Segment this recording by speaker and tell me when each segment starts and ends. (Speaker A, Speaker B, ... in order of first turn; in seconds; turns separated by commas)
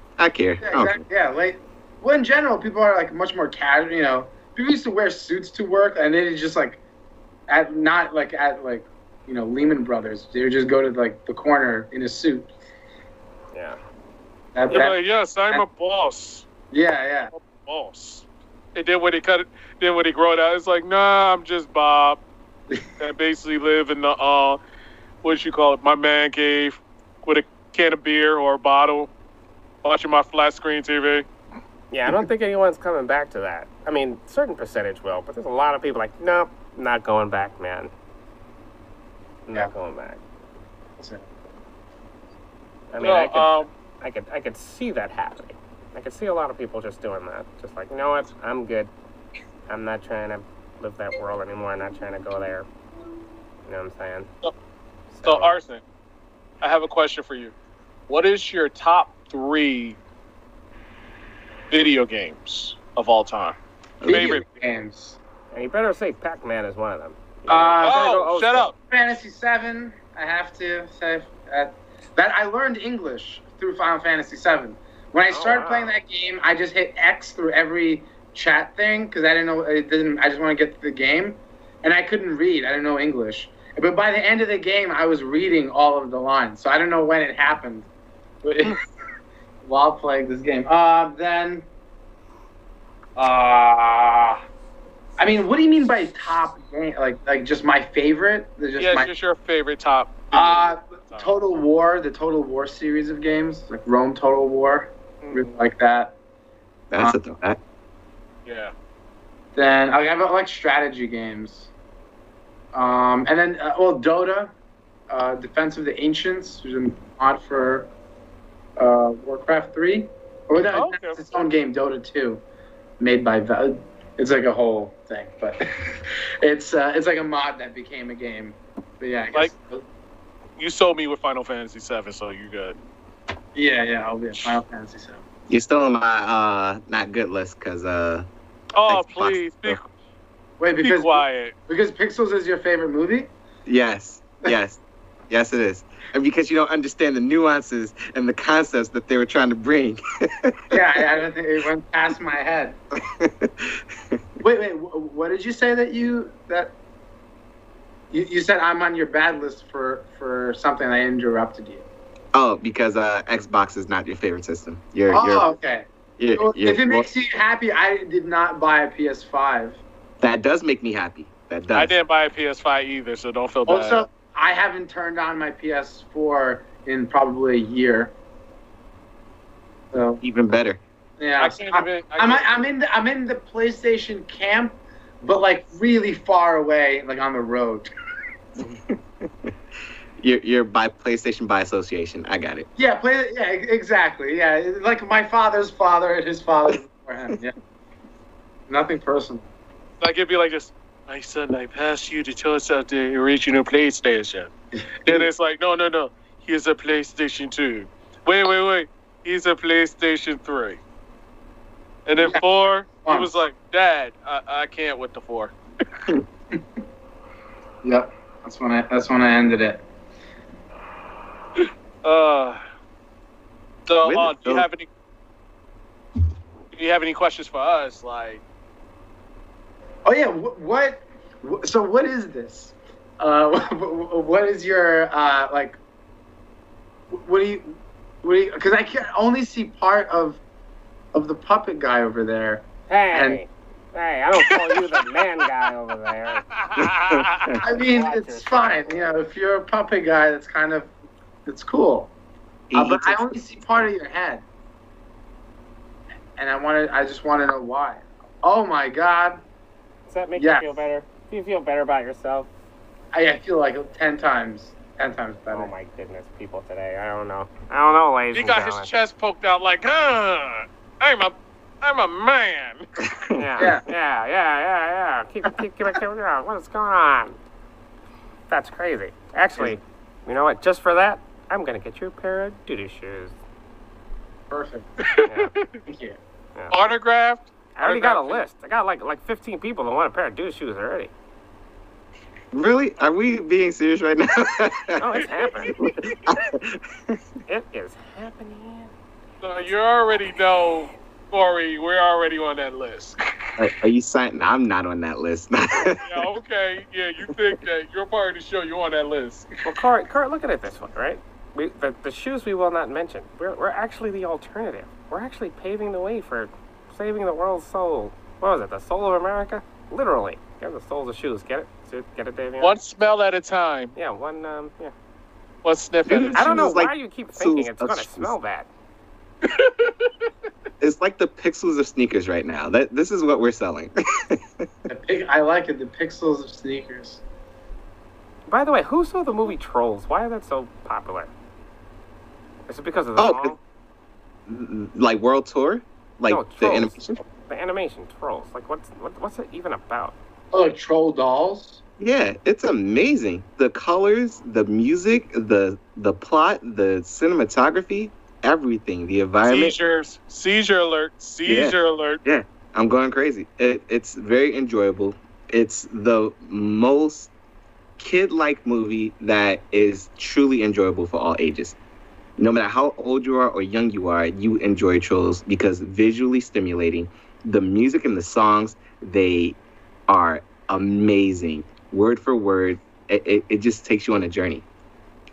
Speaker A: 0.2-1.0, Speaker B: 0.6-6.8, Speaker B: 7.5-12.5, Speaker C: 13.5-13.8, Speaker B: 14.5-15.0, Speaker D: 14.7-16.5, Speaker B: 16.7-17.3, Speaker D: 17.3-22.2, Speaker D: 23.0-24.6, Speaker D: 25.2-29.1, Speaker D: 29.8-31.2, Speaker C: 31.9-37.9, Speaker C: 39.5-40.2, Speaker C: 42.9-48.9, Speaker D: 43.0-43.7, Speaker C: 49.7-52.7, Speaker C: 53.6-54.3, Speaker C: 55.1-55.5, Speaker D: 55.2-55.8, Speaker D: 56.6-57.5, Speaker D: 58.1-60.0, Speaker D: 61.7-64.5, Speaker A: 64.0-64.4, Speaker B: 64.0-65.2, Speaker C: 65.5-68.7, Speaker B: 67.5-68.0, Speaker D: 67.8-68.7, Speaker B: 68.9-87.9, Speaker C: 75.3-76.0, Speaker B: 88.4-88.8, Speaker B: 89.6-91.7, Speaker B: 93.2-94.4, Speaker B: 95.2-99.1, Speaker D: 98.8-101.3, Speaker B: 100.3-106.2, Speaker D: 105.2-105.5, Speaker A: 106.9-107.6, Speaker D: 108.5-108.7, Speaker B: 109.5-111.7, Speaker B: 112.7-114.5, Speaker B: 115.1-117.9, Speaker B: 118.8-122.4, Speaker D: 120.6-121.2, Speaker B: 123.0-125.6, Speaker B: 126.4-129.8, Speaker D: 130.6-132.8, Speaker B: 133.5-135.2, Speaker A: 135.5-138.3, Speaker D: 138.7-139.8, Speaker A: 138.9-139.8, Speaker B: 140.6-143.3, Speaker D: 140.8-141.5, Speaker A: 143.7-151.0, Speaker B: 150.7-152.8, Speaker A: 153.0-154.2, Speaker B: 154.4-156.7, Speaker B: 158.1-161.8, Speaker A: 162.3-165.5, Speaker B: 165.1-169.8, Speaker A: 166.2-167.1, Speaker A: 170.2-171.9, Speaker D: 171.7-174.0, Speaker B: 173.7-178.1, Speaker B: 179.9-180.2, Speaker A: 180.2-180.8, Speaker B: 181.2-187.9, Speaker D: 181.4-182.6, Speaker A: 188.6-189.5, Speaker A: 190.2-192.7, Speaker B: 192.8-197.6, Speaker B: 198.7-199.5, Speaker D: 200.0-204.5, Speaker D: 205.1-210.8, Speaker D: 212.1-215.5, Speaker B: 213.0-213.3, Speaker B: 217.8-219.8, Speaker D: 221.6-222.6, Speaker D: 223.9-224.8, Speaker A: 224.0-224.7, Speaker D: 226.7-228.4, Speaker B: 230.0-235.8, Speaker B: 237.1-240.4, Speaker B: 241.1-243.4, Speaker C: 242.9-246.4, Speaker D: 246.5-247.6, Speaker A: 246.8-247.6, Speaker B: 247.6-250.9, Speaker C: 247.6-249.0, Speaker B: 251.4-252.1, Speaker A: 252.7-253.9, Speaker B: 252.7-254.4, Speaker B: 256.4-259.4, Speaker C: 260.1-262.5, Speaker B: 260.4-260.8, Speaker B: 263.1-265.7, Speaker C: 265.5-268.9, Speaker D: 268.3-272.9, Speaker A: 273.1-273.7, Speaker C: 273.4-277.4, Speaker B: 273.6-273.8, Speaker C: 278.5-283.4, Speaker B: 284.5-284.9, Speaker D: 285.0-285.8, Speaker C: 285.2-285.5, Speaker B: 285.9-286.2, Speaker D: 286.7-288.4, Speaker C: 287.8-291.1, Speaker A: 292.5-295.2, Speaker C: 295.0-295.8, Speaker A: 295.8-297.2, Speaker C: 297.5-298.9, Speaker D: 299.4-303.2, Speaker A: 303.6-306.0, Speaker D: 305.9-309.5, Speaker C: 309.6-322.8, Speaker D: 322.6-323.9, Speaker C: 323.9-324.9, Speaker D: 325.6-326.7, Speaker A: 326.1-328.3, Speaker C: 326.3-328.7, Speaker D: 329.4-330.3, Speaker A: 330.8-334.7, Speaker B: 334.9-337.2, Speaker C: 338.5-341.3, Speaker C: 342.7-343.6, Speaker A: 343.2-343.5, Speaker A: 344.5-347.2, Speaker C: 346.3-350.1, Speaker B: 350.5-351.8, Speaker A: 352.0-359.8, Speaker D: 359.4-362.2, Speaker A: 361.4-367.3, Speaker A: 368.0-371.8, Speaker A: 372.4-379.6, Speaker A: 380.1-384.6